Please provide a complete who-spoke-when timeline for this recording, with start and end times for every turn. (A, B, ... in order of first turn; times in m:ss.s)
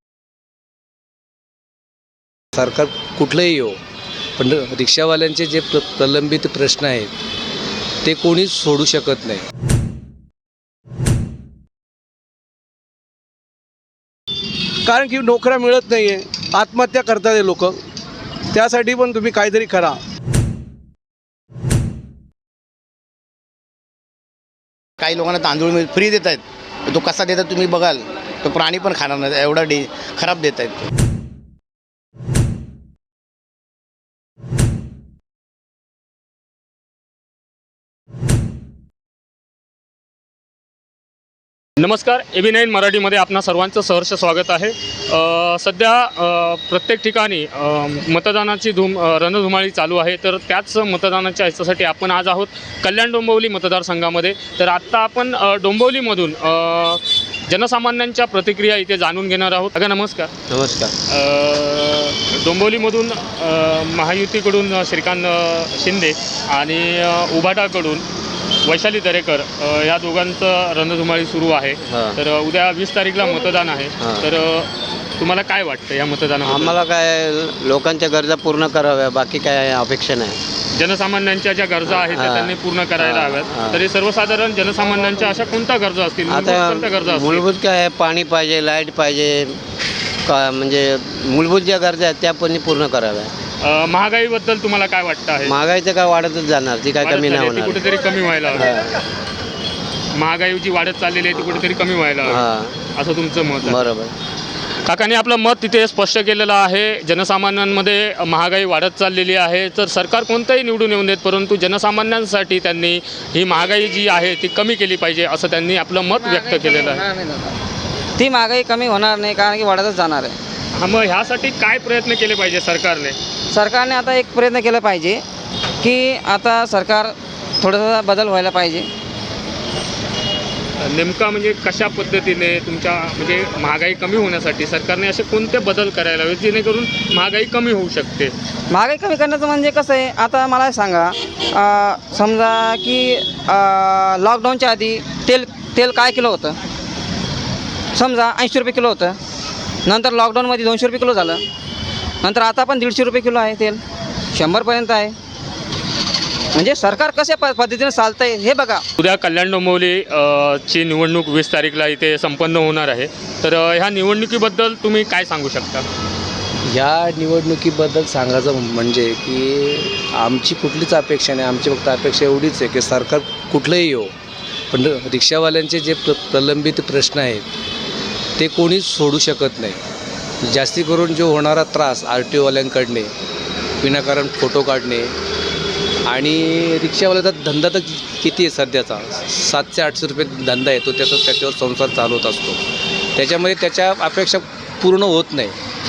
0:02.6-0:03.8 A
0:04.4-0:07.2 A
0:08.0-0:09.5 A
0:14.9-0:17.8 B
0:18.5-0:20.0 B
0:25.0-0:30.9 C
0:41.8-1:00.3 D
1:00.5-1:00.9 E
1:01.1-1:08.0 D
1:08.6-1:16.8 D
1:11.9-1:12.2 E
1:16.4-1:20.4 E
1:20.8-1:27.5 D
1:21.9-1:23.8 E
1:26.3-1:29.6 E
1:30.3-1:33.3 E
1:33.6-1:35.5 D
1:35.4-1:37.8 E
1:37.0-1:38.7 D
1:40.1-1:43.9 D
1:42.3-1:42.7 E
1:43.6-1:44.1 E
1:44.9-1:57.1 D
1:56.2-1:57.5 F
1:58.2-2:00.4 F
2:00.8-2:03.2 D
2:03.5-2:05.2 F
2:05.8-2:08.9 F
2:10.8-2:18.3 D
2:18.7-2:26.6 F
2:28.0-2:29.2 F
2:29.9-2:31.4 F
2:32.2-2:33.8 F
2:34.3-2:35.2 F
2:36.6-2:38.8 F
2:39.0-2:45.8 D
2:46.6-2:54.2 A
2:54.7-2:57.5 A
2:58.4-2:59.8 A
3:00.4-3:03.1 A
3:03.8-3:05.2 A
3:06.1-3:12.6 A
3:13.2-3:15.6 A